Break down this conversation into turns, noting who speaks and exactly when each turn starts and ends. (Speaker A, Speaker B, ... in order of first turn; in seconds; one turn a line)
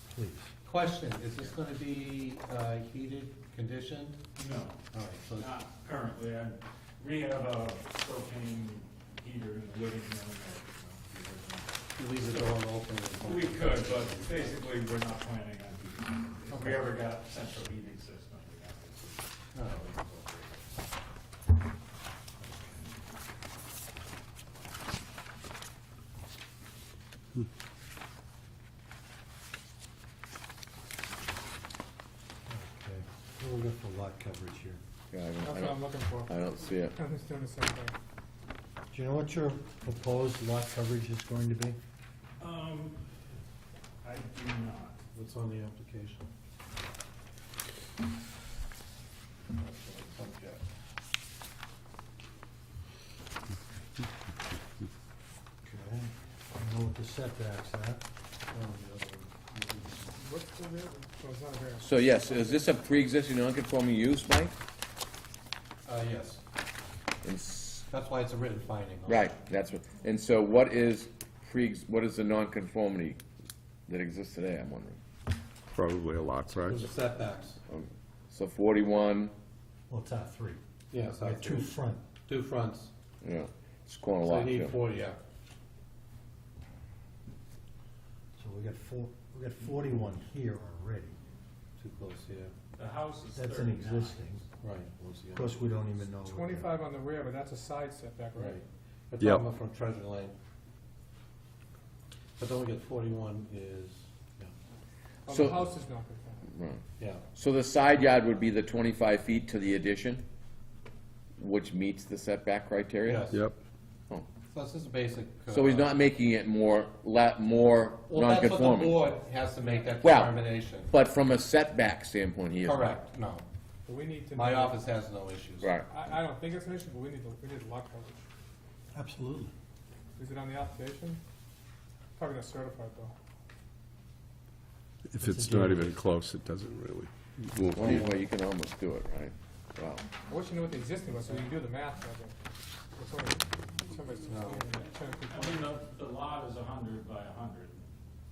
Speaker A: 0.1-0.5
Speaker B: 0.6-4.2
Speaker C: 4.4-12.7
Speaker B: 4.9-5.7
Speaker B: 12.0-14.6
Speaker C: 13.2-20.7
Speaker B: 16.5-16.9
Speaker A: 22.4-22.8
Speaker A: 32.5-34.8
Speaker D: 35.1-37.0
Speaker E: 35.4-38.0
Speaker A: 38.9-41.8
Speaker C: 42.4-43.0
Speaker C: 44.0-45.0
Speaker B: 45.1-46.2
Speaker B: 49.6-50.6
Speaker A: 55.6-58.0
Speaker B: 58.5-59.8
Speaker E: 60.2-62.7
Speaker D: 61.8-64.5
Speaker B: 65.8-66.4
Speaker D: 67.2-67.9
Speaker B: 67.9-69.3
Speaker D: 69.1-73.2
Speaker D: 73.9-75.0
Speaker B: 76.5-77.6
Speaker D: 77.7-79.3
Speaker A: 79.9-82.0
Speaker B: 80.9-82.9
Speaker D: 83.2-84.8
Speaker B: 84.2-85.2
Speaker A: 88.4-91.2
Speaker B: 91.8-92.5
Speaker C: 92.8-94.4
Speaker A: 93.3-94.4
Speaker B: 94.6-95.5
Speaker A: 95.3-96.8
Speaker E: 96.1-98.6
Speaker B: 99.1-100.4
Speaker F: 99.2-99.6
Speaker B: 102.4-104.5
Speaker E: 105.3-106.5
Speaker D: 105.3-105.7
Speaker D: 106.5-106.8
Speaker D: 107.3-110.2
Speaker D: 111.4-113.3
Speaker B: 113.0-113.5
Speaker B: 114.5-116.0
Speaker D: 115.5-119.0
Speaker B: 118.1-120.9
Speaker D: 120.0-122.9
Speaker B: 122.6-123.5
Speaker E: 123.9-124.8
Speaker B: 124.3-125.7
Speaker D: 125.6-125.9
Speaker E: 125.9-128.2
Speaker A: 128.9-129.5
Speaker E: 130.2-131.2
Speaker E: 132.2-133.1
Speaker A: 135.2-136.2
Speaker F: 135.5-138.1
Speaker D: 137.7-140.1
Speaker E: 140.2-142.3
Speaker E: 142.9-145.7
Speaker C: 145.3-147.8